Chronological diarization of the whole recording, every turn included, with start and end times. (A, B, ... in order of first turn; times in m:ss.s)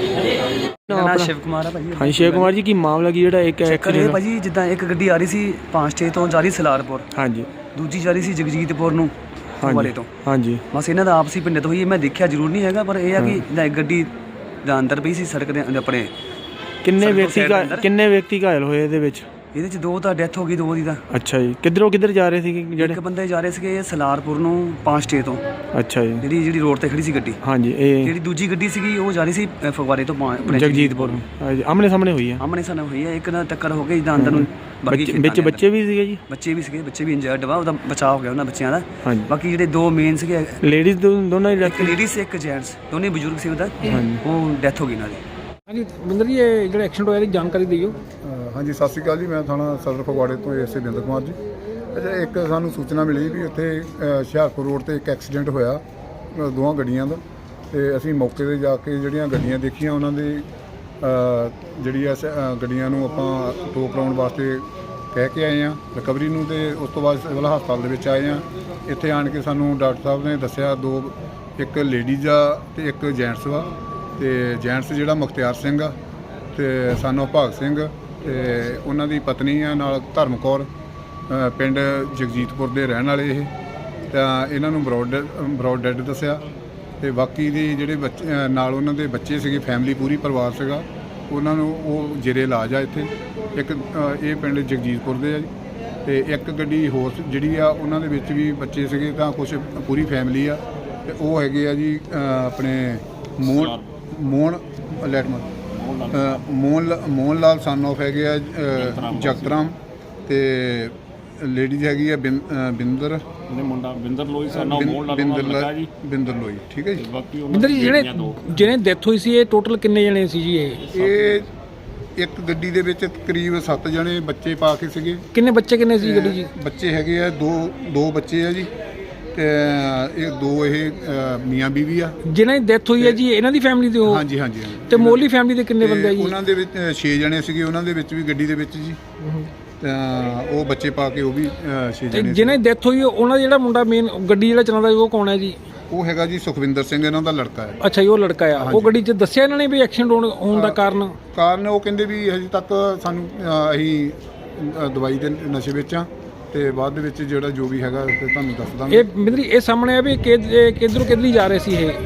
0:00.9-0:01.3 A
0:00.9-0:02.6 B
0:02.0-0:04.2 A
0:03.6-0:07.1 B
0:07.1-0:07.5 A
0:07.7-0:10.1 B
0:09.6-0:10.6 A
0:10.7-0:14.1 B
0:14.6-0:16.1 B
0:16.8-0:19.3 A
0:17.0-0:17.9 B
0:19.5-0:21.0 B
0:21.1-0:23.0 A
0:22.8-0:25.4 B
0:25.8-0:26.2 A
0:26.2-0:27.4 B
0:27.4-0:28.1 A
0:28.0-0:31.2 B
0:30.4-0:32.4 A
0:32.4-0:40.6 B
0:34.2-0:36.2 A
0:39.0-0:39.3 A
0:40.6-0:42.0 A
0:41.6-0:45.2 B
0:43.9-0:44.2 A
0:45.7-0:48.0 C
0:48.2-0:51.4 D
0:51.9-1:00.5 D
1:01.0-1:16.0 D
1:16.5-1:20.7 D
1:21.3-1:23.5 D
1:24.1-1:26.4 D
1:27.0-1:35.5 D
1:36.0-1:45.5 D
1:43.4-1:43.8 E
1:45.7-1:46.4 E
1:46.1-1:53.3 D
1:48.8-1:49.6 E
1:53.5-1:55.9 E
1:54.5-1:57.1 D
1:57.0-1:58.7 E
1:57.5-2:00.8 C
2:00.9-2:01.5 E
2:00.9-2:01.5 D
2:02.2-2:05.2 D
2:05.3-2:06.5 C
2:06.0-2:08.7 D
2:09.3-2:12.2 D
2:12.3-2:14.2 C
2:14.0-2:19.0 D
2:14.9-2:16.3 C
2:19.2-2:19.5 C
2:19.8-2:22.6 D
2:22.1-2:25.6 C
2:25.9-2:27.8 D
2:27.8-2:31.2 C
2:28.6-2:29.0 D
2:30.5-2:39.2 D
2:38.9-2:42.0 C